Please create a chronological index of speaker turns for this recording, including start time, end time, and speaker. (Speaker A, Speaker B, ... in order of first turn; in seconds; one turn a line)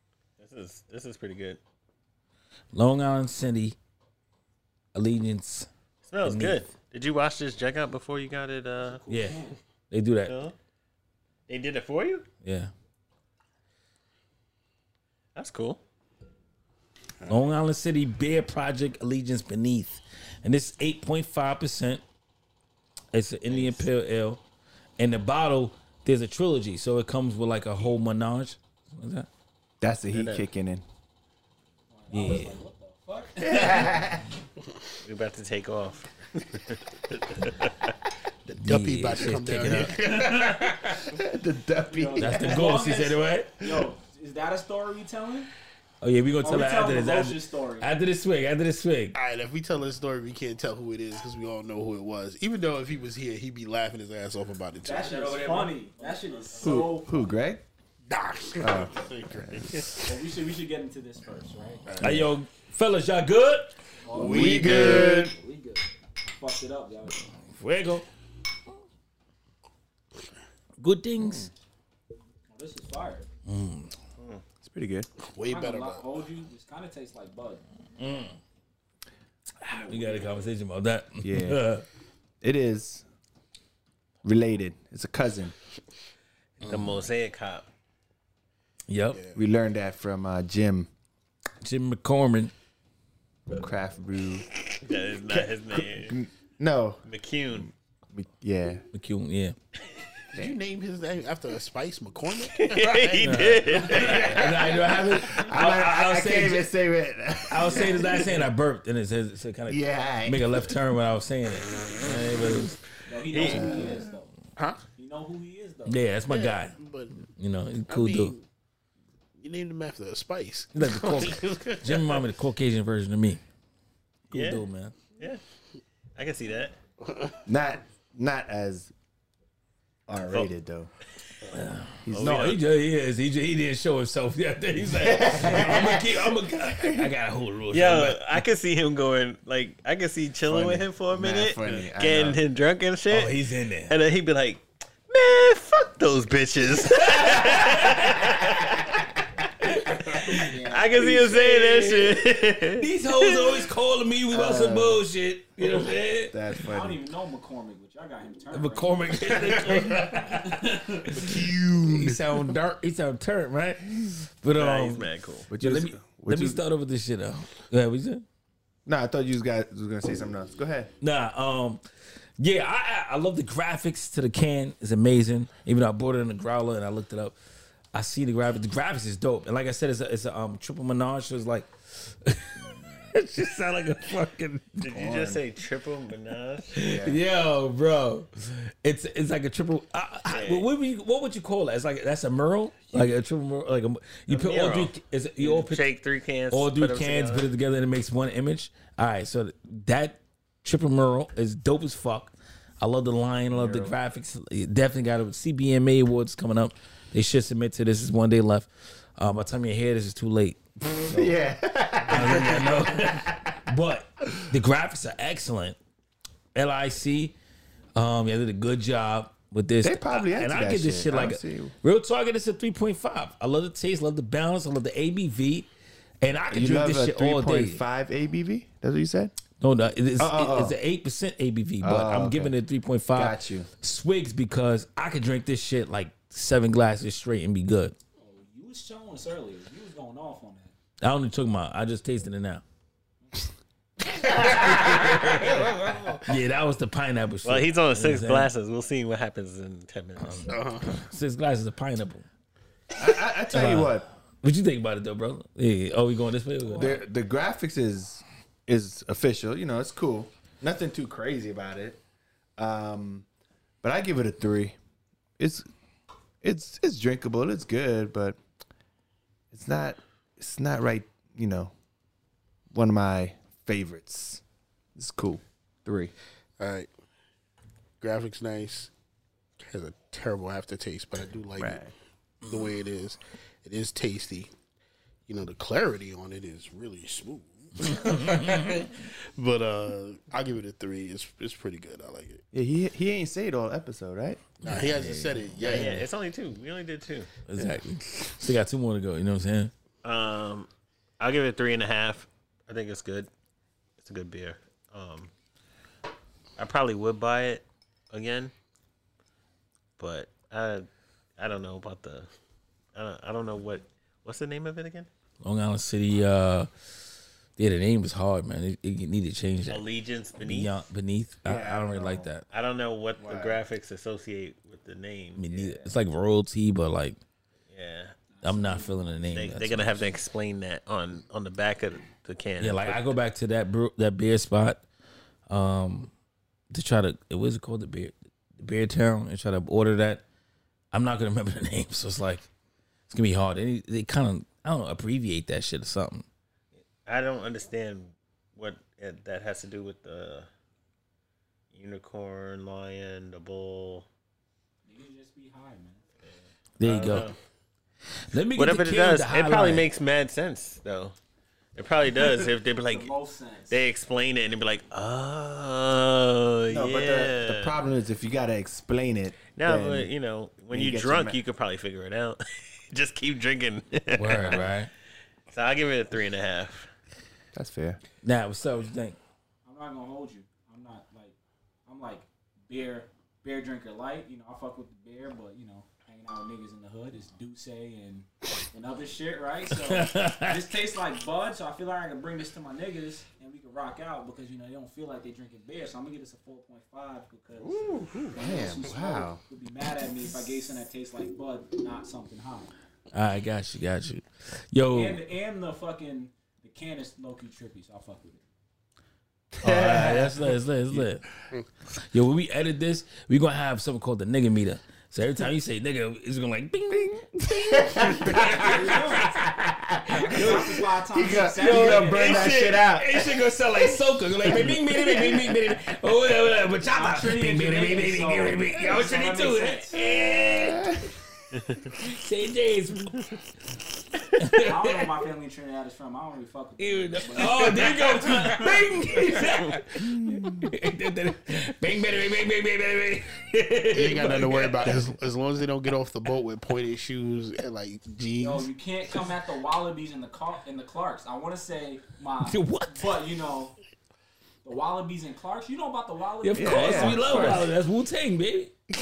Speaker A: 0.4-1.6
Speaker B: 2.7-3.8
Speaker B: 4.9-5.7
Speaker A: 6.0-9.0
Speaker B: 6.2-6.6
Speaker C: 8.8-9.6
Speaker B: 9.1-10.3
Speaker A: 10.2-10.5
Speaker A: 11.5-12.3
Speaker B: 12.4-12.7
Speaker A: 15.3-15.8
Speaker B: 17.3-22.0
Speaker B: 23.1-24.4
Speaker B: 25.0-29.3
Speaker D: 29.8-30.8
Speaker A: 30.1-30.4
Speaker C: 31.9-34.0
Speaker B: 32.1-32.6
Speaker D: 33.4-34.2
Speaker A: 35.0-37.9
Speaker E: 38.5-41.0
Speaker B: 38.5-40.8
Speaker D: 41.1-42.7
Speaker C: 41.9-45.5
Speaker B: 42.2-43.6
Speaker B: 46.0-49.1
Speaker C: 46.4-47.9
Speaker E: 49.1-55.4
Speaker C: 54.8-57.3
Speaker B: 55.1-56.7
Speaker D: 56.6-57.6
Speaker E: 58.1-60.1
Speaker D: 58.6-59.9
Speaker C: 60.0-61.9
Speaker E: 61.9-62.3
Speaker B: 62.0-65.1
Speaker C: 64.0-67.3
Speaker E: 64.1-65.3
Speaker D: 64.1-65.3
Speaker B: 67.4-68.0
Speaker B: 70.8-71.5
Speaker D: 71.2-71.5
Speaker C: 72.5-73.2
Speaker B: 73.5-73.9
Speaker D: 74.6-75.1
Speaker E: 75.2-76.0
Speaker C: 75.4-77.6
Speaker B: 78.0-78.4
Speaker B: 79.6-81.8
Speaker C: 79.7-80.5
Speaker D: 81.2-81.6
Speaker D: 82.4-83.0
Speaker D: 84.2-85.5
Speaker A: 86.6-87.7
Speaker B: 88.9-89.2
Speaker E: 89.1-89.4
Speaker D: 89.3-90.9
Speaker B: 91.6-92.5
Speaker D: 93.5-94.5
Speaker A: 94.7-96.1
Speaker D: 95.3-97.0
Speaker A: 97.0-97.7
Speaker D: 98.1-98.8
Speaker B: 98.9-99.5
Speaker E: 100.3-105.2
Speaker A: 102.5-104.5
Speaker B: 103.2-106.7
Speaker D: 105.1-108.3
Speaker C: 105.2-105.5
Speaker B: 107.5-112.8
Speaker D: 109.7-110.7
Speaker C: 113.1-114.3
Speaker A: 113.2-113.8
Speaker D: 113.4-114.1
Speaker C: 114.9-116.0
Speaker B: 115.8-118.3
Speaker E: 116.3-117.2
Speaker E: 117.9-118.4
Speaker E: 119.4-122.2
Speaker B: 120.7-123.4
Speaker B: 124.3-125.0
Speaker A: 124.3-124.6
Speaker A: 125.1-125.4
Speaker A: 126.2-126.7
Speaker E: 127.0-127.4
Speaker D: 127.5-128.9
Speaker D: 130.1-130.9
Speaker B: 131.5-138.2
Speaker D: 132.1-132.6
Speaker A: 132.1-132.6
Speaker D: 134.9-137.1
Speaker A: 137.7-149.1
Speaker D: 140.5-142.4
Speaker B: 143.1-143.9
Speaker B: 146.8-148.3
Speaker B: 149.6-156.3
Speaker A: 150.1-153.6
Speaker C: 150.1-151.1
Speaker D: 154.3-155.0
Speaker D: 156.3-157.0
Speaker C: 156.6-160.6
Speaker B: 158.5-168.2
Speaker E: 159.5-160.1
Speaker E: 161.1-162.5
Speaker A: 164.5-165.5
Speaker D: 165.5-166.6
Speaker D: 168.8-170.9
Speaker B: 171.0-171.8
Speaker B: 172.4-177.3
Speaker B: 177.9-184.9
Speaker A: 184.8-186.7
Speaker D: 184.9-185.4
Speaker B: 186.7-195.8
Speaker D: 186.8-187.2
Speaker A: 190.3-190.7
Speaker A: 194.3-197.5
Speaker B: 196.5-211.3
Speaker D: 203.5-203.9
Speaker D: 211.1-213.6
Speaker B: 212.1-215.8
Speaker B: 216.5-217.3
Speaker B: 217.9-225.7
Speaker D: 219.8-221.7
Speaker B: 226.2-227.8
Speaker D: 226.5-229.3
Speaker B: 229.6-237.9
Speaker D: 230.2-230.8
Speaker D: 231.8-232.5
Speaker D: 233.1-233.7
Speaker C: 238.2-240.7
Speaker B: 241.0-242.6
Speaker B: 244.3-245.7
Speaker E: 245.1-246.2
Speaker B: 246.2-248.5
Speaker A: 247.4-250.5
Speaker B: 250.2-252.2
Speaker E: 250.5-250.9
Speaker D: 252.9-254.1
Speaker B: 253.5-257.0
Speaker D: 256.7-262.0
Speaker D: 262.6-263.2
Speaker D: 263.8-264.8
Speaker D: 265.4-265.6
Speaker D: 266.4-268.4
Speaker D: 269.5-271.7
Speaker D: 272.7-274.4
Speaker D: 274.9-276.1
Speaker E: 276.6-276.9
Speaker E: 278.0-278.9
Speaker E: 279.6-281.8
Speaker D: 281.6-281.9
Speaker E: 282.4-284.5
Speaker E: 285.3-292.4
Speaker B: 287.9-288.7
Speaker D: 292.5-294.4
Speaker E: 294.6-296.0
Speaker B: 294.6-295.5
Speaker A: 295.6-297.3
Speaker B: 297.5-299.7
Speaker A: 300.0-300.7
Speaker A: 301.2-303.3
Speaker A: 304.0-305.3
Speaker A: 306.6-308.5
Speaker A: 310.0-312.3
Speaker A: 312.9-315.1
Speaker B: 315.4-316.7
Speaker B: 317.6-319.8
Speaker A: 319.7-320.8
Speaker B: 320.4-322.4
Speaker D: 321.4-322.3
Speaker A: 322.5-325.4
Speaker D: 323.2-323.6
Speaker B: 325.4-327.2
Speaker C: 325.5-325.8
Speaker A: 327.7-328.2
Speaker C: 328.3-329.1
Speaker B: 328.4-330.0
Speaker A: 329.3-333.1
Speaker B: 332.6-334.8
Speaker B: 335.5-336.1
Speaker B: 336.7-340.2
Speaker B: 340.9-342.5
Speaker B: 343.1-346.2
Speaker A: 347.0-350.5
Speaker A: 351.7-354.1
Speaker C: 354.9-356.0
Speaker B: 356.8-357.3
Speaker A: 356.8-357.4
Speaker B: 358.3-359.9
Speaker A: 358.5-361.1
Speaker A: 361.8-363.1
Speaker C: 362.7-363.8
Speaker A: 363.7-367.8
Speaker D: 366.7-370.1
Speaker A: 369.5-374.7
Speaker D: 370.7-371.4
Speaker B: 374.1-374.9
Speaker A: 375.5-376.9
Speaker D: 377.5-378.0
Speaker B: 378.2-379.2
Speaker C: 379.6-381.3
Speaker C: 381.9-402.7
Speaker B: 389.8-390.6
Speaker D: 398.2-399.4
Speaker B: 403.1-405.2
Speaker C: 404.9-408.4
Speaker D: 409.6-410.5
Speaker B: 409.6-411.3
Speaker B: 412.1-419.4
Speaker D: 416.9-425.6
Speaker C: 418.2-419.4
Speaker C: 420.1-422.6
Speaker B: 420.1-431.1
Speaker C: 426.9-430.0
Speaker D: 430.6-431.1
Speaker B: 431.9-433.2
Speaker B: 434.3-435.1
Speaker C: 434.6-438.9
Speaker B: 436.8-445.1
Speaker D: 440.1-440.7
Speaker E: 443.9-448.7
Speaker C: 448.4-453.7
Speaker B: 452.4-453.1
Speaker C: 454.6-457.7
Speaker B: 456.4-458.8
Speaker D: 456.5-457.7